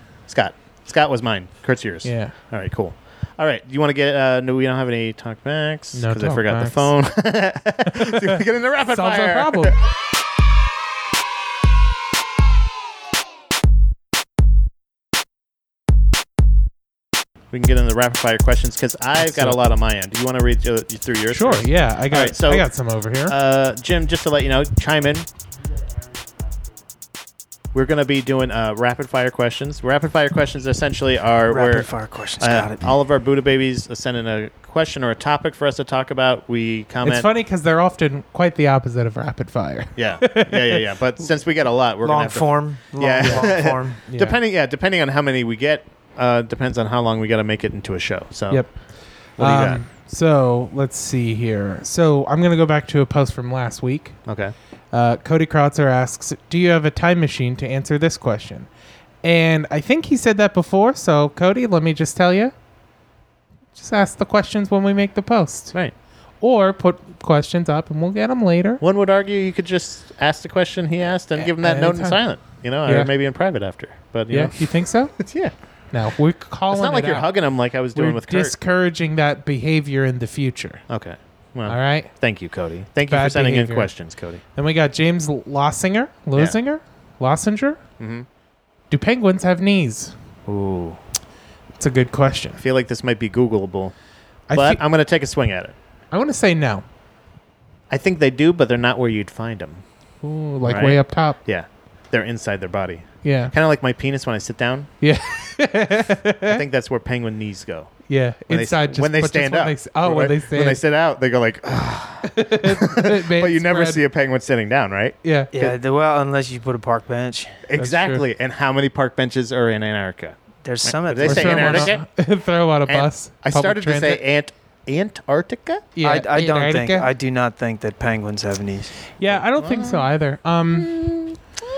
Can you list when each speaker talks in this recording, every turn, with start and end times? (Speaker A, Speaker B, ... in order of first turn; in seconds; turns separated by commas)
Speaker A: 0.3-9.7, Speaker B: 2.0-2.3, Speaker B: 5.9-6.9, Speaker B: 7.9-9.8, Speaker A: 17.5-22.7, Speaker B: 19.2-19.6, Speaker B: 21.3-23.4, Speaker A: 23.3-25.3, Speaker A: 27.7-31.9, Speaker C: 31.5-32.9, Speaker A: 32.4-37.3, Speaker B: 37.0-40.8, Speaker A: 40.0-48.6, Speaker C: 42.0-44.0, Speaker B: 43.2-44.4, Speaker B: 48.5-48.7, Speaker B: 49.4-54.2, Speaker A: 49.4-49.8, Speaker A: 54.2-54.5, Speaker B: 54.9-58.7, Speaker B: 59.2-62.5, Speaker B: 63.7-65.7, Speaker B: 66.4-68.8, Speaker A: 68.8-75.5, Speaker B: 71.4-72.2, Speaker B: 72.8-73.1, Speaker B: 74.3-75.2, Speaker B: 75.9-77.3, Speaker A: 76.7-78.5, Speaker B: 77.9-80.8, Speaker A: 80.9-84.4, Speaker B: 81.7-82.1, Speaker B: 83.1-83.9, Speaker B: 84.5-87.8, Speaker A: 88.0-88.3, Speaker B: 88.9-90.1, Speaker A: 90.5-91.0, Speaker B: 91.8-92.6, Speaker A: 92.6-93.9, Speaker B: 94.5-94.8, Speaker A: 94.5-95.7, Speaker B: 96.1-96.8, Speaker A: 97.9-99.8, Speaker B: 100.2-101.4, Speaker A: 100.7-104.9, Speaker B: 103.2-103.5, Speaker B: 105.0-106.6, Speaker A: 106.5-107.9, Speaker B: 108.1-110.8, Speaker A: 108.5-115.7, Speaker B: 112.2-114.0, Speaker B: 115.2-115.5, Speaker C: 115.5-117.6, Speaker A: 117.7-122.0, Speaker B: 117.8-118.2, Speaker C: 120.6-121.9, Speaker B: 121.2-124.2, Speaker A: 122.9-125.8, Speaker B: 126.0-127.1, Speaker C: 126.0-129.1, Speaker B: 129.2-130.9, Speaker A: 129.3-130.1, Speaker A: 130.7-131.4